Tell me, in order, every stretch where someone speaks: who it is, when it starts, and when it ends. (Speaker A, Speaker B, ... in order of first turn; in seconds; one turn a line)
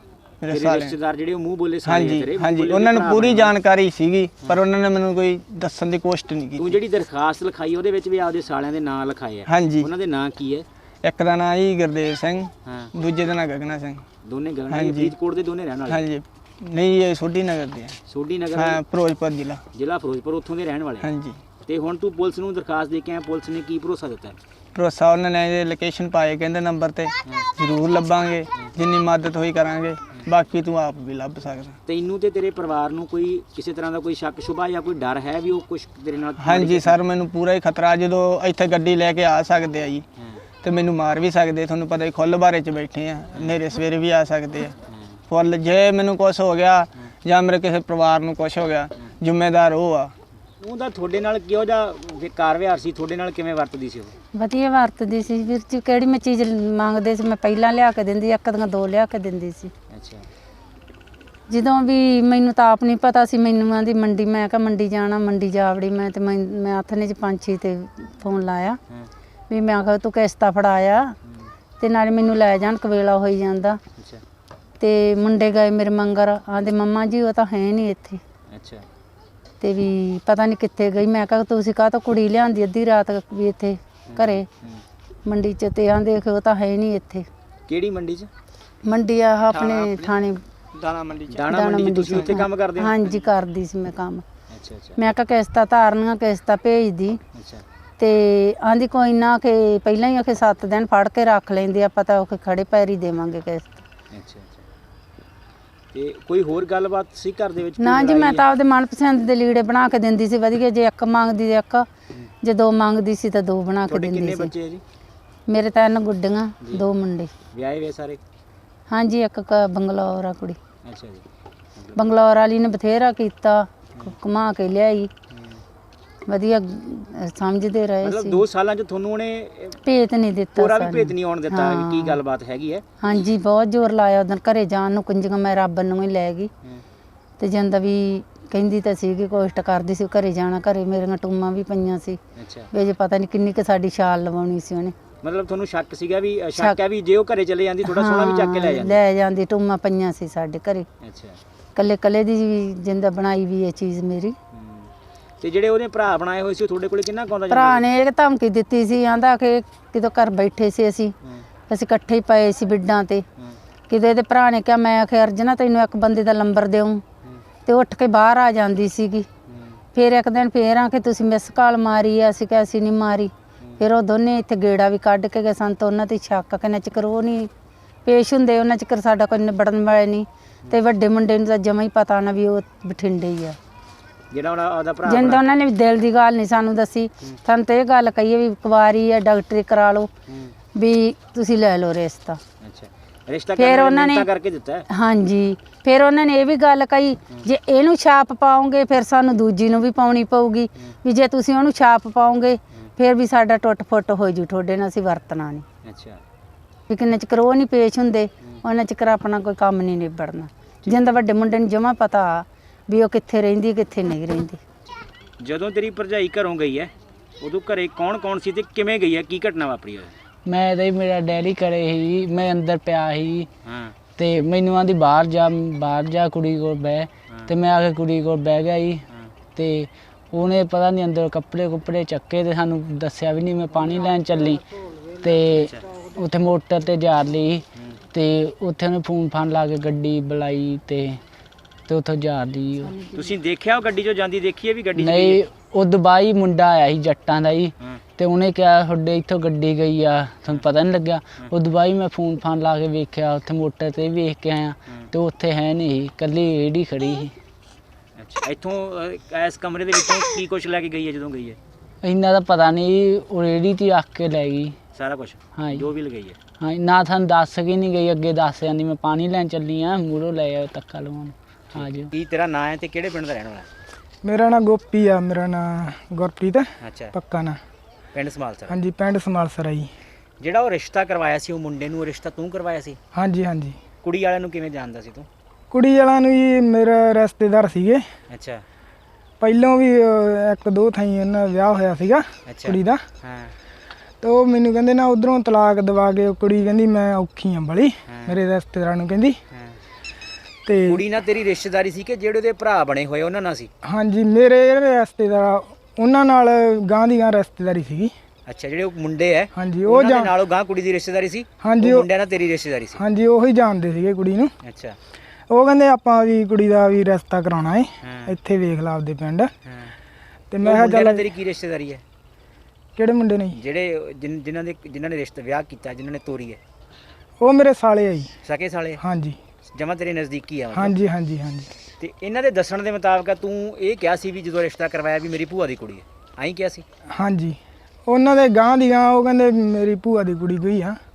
Speaker A: 0.4-0.9
Speaker B: 0.5-3.5
Speaker A: 1.8-6.8
Speaker B: 6.6-10.7
Speaker A: 9.4-9.9
Speaker A: 11.0-14.0
Speaker B: 12.7-12.9
Speaker B: 14.2-16.0
Speaker A: 14.7-15.1
Speaker A: 15.9-18.0
Speaker B: 18.1-18.8
Speaker A: 18.5-19.6
Speaker B: 19.7-21.1
Speaker A: 21.0-21.4
Speaker B: 21.6-24.4
Speaker A: 24.8-31.8
Speaker B: 31.9-37.0
Speaker A: 36.4-40.0
Speaker A: 40.6-44.8
Speaker A: 45.3-50.1
Speaker B: 50.6-54.1
Speaker C: 54.3-59.7
Speaker B: 59.9-60.3
Speaker C: 61.5-68.8
Speaker C: 69.5-71.1
Speaker B: 71.2-71.5
Speaker C: 71.8-73.8
Speaker B: 74.0-74.2
Speaker C: 74.8-78.2
Speaker B: 78.5-78.9
Speaker C: 79.6-84.5
Speaker B: 84.1-84.8
Speaker C: 85.2-87.2
Speaker B: 87.7-88.3
Speaker C: 88.8-90.4
Speaker A: 89.5-90.1
Speaker A: 90.7-92.3
Speaker B: 91.3-93.2
Speaker C: 91.5-94.2
Speaker B: 94.5-95.0
Speaker C: 95.0-97.2
Speaker B: 97.3-97.6
Speaker C: 98.0-103.8
Speaker B: 104.1-104.6
Speaker B: 105.9-108.4
Speaker C: 107.8-111.9
Speaker C: 112.4-114.5
Speaker B: 113.9-114.8
Speaker C: 115.5-117.3
Speaker B: 117.5-118.2
Speaker C: 118.9-120.6
Speaker B: 120.8-121.2
Speaker C: 121.9-125.1
Speaker B: 125.3-125.6
Speaker C: 126.3-128.4
Speaker B: 128.0-129.8
Speaker C: 129.8-132.2
Speaker B: 130.6-132.9
Speaker C: 133.0-136.5
Speaker C: 137.4-142.2
Speaker B: 142.4-142.7
Speaker C: 142.7-144.9
Speaker B: 145.2-149.0
Speaker C: 147.8-150.9
Speaker B: 151.0-151.4
Speaker C: 151.8-154.3
Speaker B: 154.5-154.9
Speaker B: 155.4-157.8
Speaker C: 157.5-161.1
Speaker C: 161.7-163.2
Speaker C: 163.9-167.0
Speaker C: 167.7-169.3
Speaker B: 169.5-169.8
Speaker C: 169.9-177.5
Speaker C: 178.0-183.6
Speaker B: 184.3-185.4
Speaker C: 185.0-190.1
Speaker B: 190.3-190.5
Speaker C: 190.8-192.4
Speaker B: 192.6-194.9
Speaker C: 193.6-194.3
Speaker C: 194.9-205.6
Speaker B: 205.8-206.2
Speaker C: 206.9-214.6
Speaker B: 210.8-211.1
Speaker B: 215.4-220.1
Speaker D: 220.4-223.5
Speaker B: 223.6-224.0
Speaker D: 224.2-229.0
Speaker D: 229.6-234.6
Speaker D: 235.2-241.2
Speaker D: 241.9-242.9
Speaker C: 242.9-243.2
Speaker B: 243.1-245.4
Speaker D: 244.9-257.3
Speaker B: 258.2-261.6
Speaker D: 262.0-264.8
Speaker B: 264.9-266.4
Speaker D: 265.6-265.9
Speaker D: 266.6-272.1
Speaker B: 271.7-273.7
Speaker E: 274.2-277.6
Speaker B: 276.8-277.1
Speaker B: 278.1-278.8
Speaker E: 278.7-279.9
Speaker B: 280.4-283.0
Speaker E: 283.1-283.8
Speaker B: 284.0-285.3
Speaker E: 285.7-288.0
Speaker B: 288.3-288.6
Speaker E: 289.4-293.0
Speaker B: 292.4-293.5
Speaker E: 294.2-299.4
Speaker B: 298.1-298.4
Speaker B: 299.5-299.8
Speaker E: 300.6-301.0
Speaker B: 300.9-303.7
Speaker E: 303.8-308.1
Speaker B: 308.5-313.0
Speaker E: 309.6-310.3
Speaker E: 311.6-312.1
Speaker E: 312.9-314.5
Speaker B: 314.6-315.0
Speaker E: 315.5-319.5
Speaker B: 318.0-318.4
Speaker B: 319.6-319.9
Speaker E: 320.5-321.2
Speaker B: 320.6-322.0
Speaker E: 322.9-323.6
Speaker B: 323.5-326.6
Speaker E: 327.4-328.3
Speaker B: 328.4-329.0
Speaker E: 329.0-329.4
Speaker B: 329.7-331.0
Speaker E: 330.7-331.7
Speaker B: 332.0-336.9
Speaker E: 337.1-341.0